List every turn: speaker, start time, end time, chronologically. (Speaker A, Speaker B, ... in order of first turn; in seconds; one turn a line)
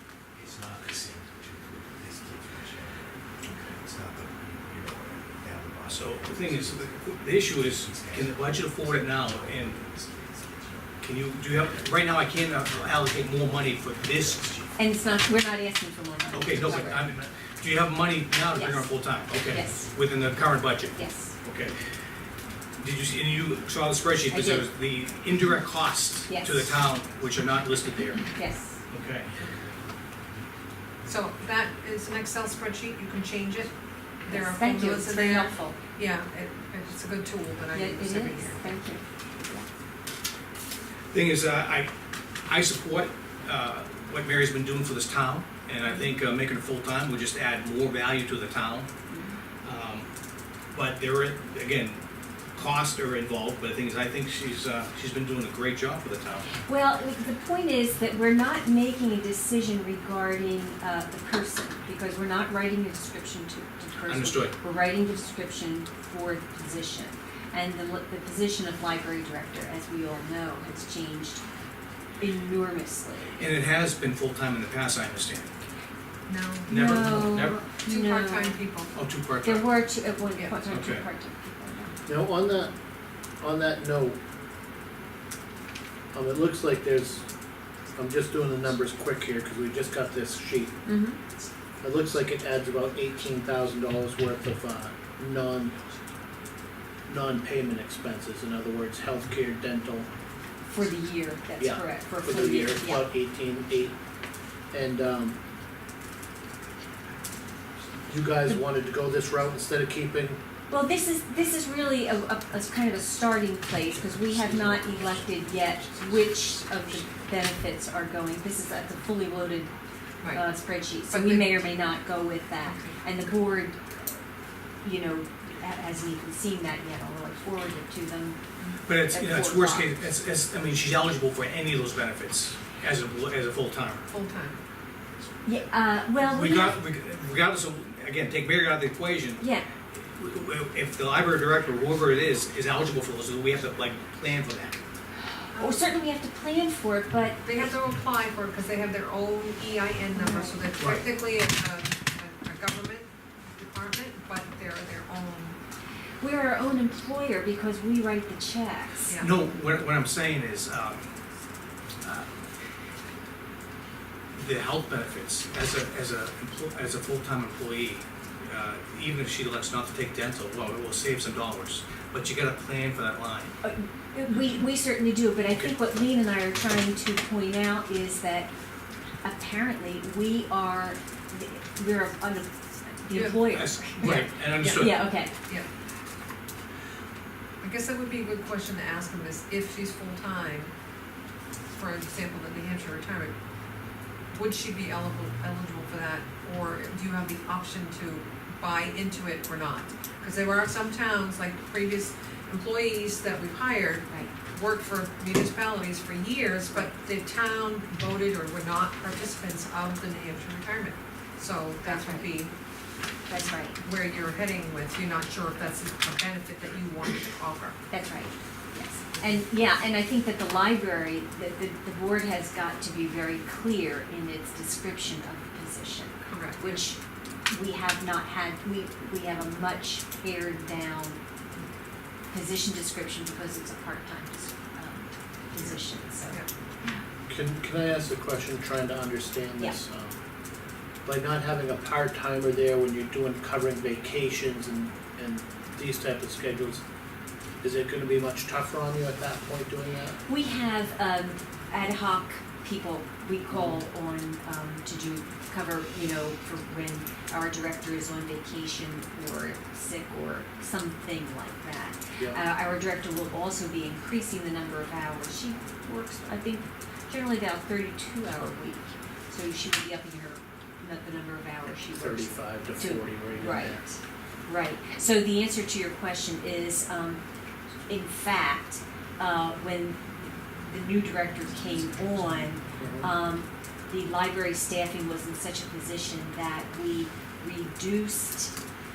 Speaker A: 0.3-15.3
Speaker B: 5.9-9.8
Speaker B: 11.0-14.5
Speaker C: 14.8-17.1
Speaker B: 16.3-21.8
Speaker C: 18.5-18.9
Speaker C: 19.5-19.9
Speaker C: 20.9-21.3
Speaker B: 22.8-28.3
Speaker C: 24.3-24.6
Speaker C: 26.3-26.7
Speaker C: 28.2-28.8
Speaker B: 28.9-29.3
Speaker A: 29.2-30.4
Speaker D: 31.1-38.7
Speaker C: 34.3-35.8
Speaker C: 37.7-39.7
Speaker B: 41.1-41.9
Speaker B: 42.4-48.9
Speaker C: 49.1-49.4
Speaker B: 49.6-50.1
Speaker B: 50.7-52.0
Speaker B: 52.5-56.5
Speaker C: 56.5-71.4
Speaker B: 64.1-64.5
Speaker C: 72.2-73.4
Speaker B: 73.4-75.5
Speaker D: 76.3-76.7
Speaker B: 76.7-77.7
Speaker C: 76.7-78.6
Speaker D: 77.8-78.9
Speaker B: 78.9-79.7
Speaker C: 79.4-82.0
Speaker D: 80.3-80.6
Speaker B: 80.7-81.0
Speaker E: 82.0-82.7
Speaker E: 83.4-84.2
Speaker E: 86.1-87.2
Speaker E: 87.9-90.8
Speaker C: 90.8-91.2
Speaker E: 91.8-95.7
Speaker E: 97.1-100.1
Speaker C: 100.7-103.1
Speaker E: 101.6-104.0
Speaker E: 104.7-105.3
Speaker A: 107.0-108.4
Speaker E: 108.1-110.4
Speaker C: 110.7-119.7
Speaker A: 113.8-117.5
Speaker E: 114.5-114.8
Speaker C: 120.3-124.2
Speaker D: 121.1-121.6
Speaker D: 122.6-123.0
Speaker C: 124.8-128.4
Speaker B: 128.8-134.1
Speaker C: 129.1-130.0
Speaker D: 134.1-134.6
Speaker C: 135.4-136.8
Speaker B: 136.2-144.8
Speaker C: 139.4-139.7
Speaker D: 145.5-145.9
Speaker C: 145.5-147.7
Speaker D: 147.4-155.6
Speaker C: 150.1-150.6
Speaker B: 150.8-151.1
Speaker C: 156.2-159.2
Speaker B: 159.2-161.1
Speaker B: 162.0-162.3
Speaker B: 164.3-173.5
Speaker C: 173.6-178.5
Speaker C: 179.2-185.3
Speaker D: 183.1-184.3
Speaker B: 183.5-185.1
Speaker D: 187.6-190.7
Speaker D: 191.7-193.3
Speaker D: 194.3-212.5
Speaker C: 211.8-212.3
Speaker C: 213.3-213.8
Speaker D: 213.8-217.8
Speaker C: 217.9-227.0
Speaker D: 219.2-219.4
Speaker D: 226.2-226.8
Speaker C: 227.5-231.2
Speaker C: 232.3-237.0
Speaker E: 237.3-240.2
Speaker E: 241.0-246.8
Speaker E: 247.6-250.2
Speaker C: 250.2-277.2
Speaker E: 253.5-253.8
Speaker E: 271.9-273.8
Speaker C: 277.9-288.5
Speaker E: 282.8-283.1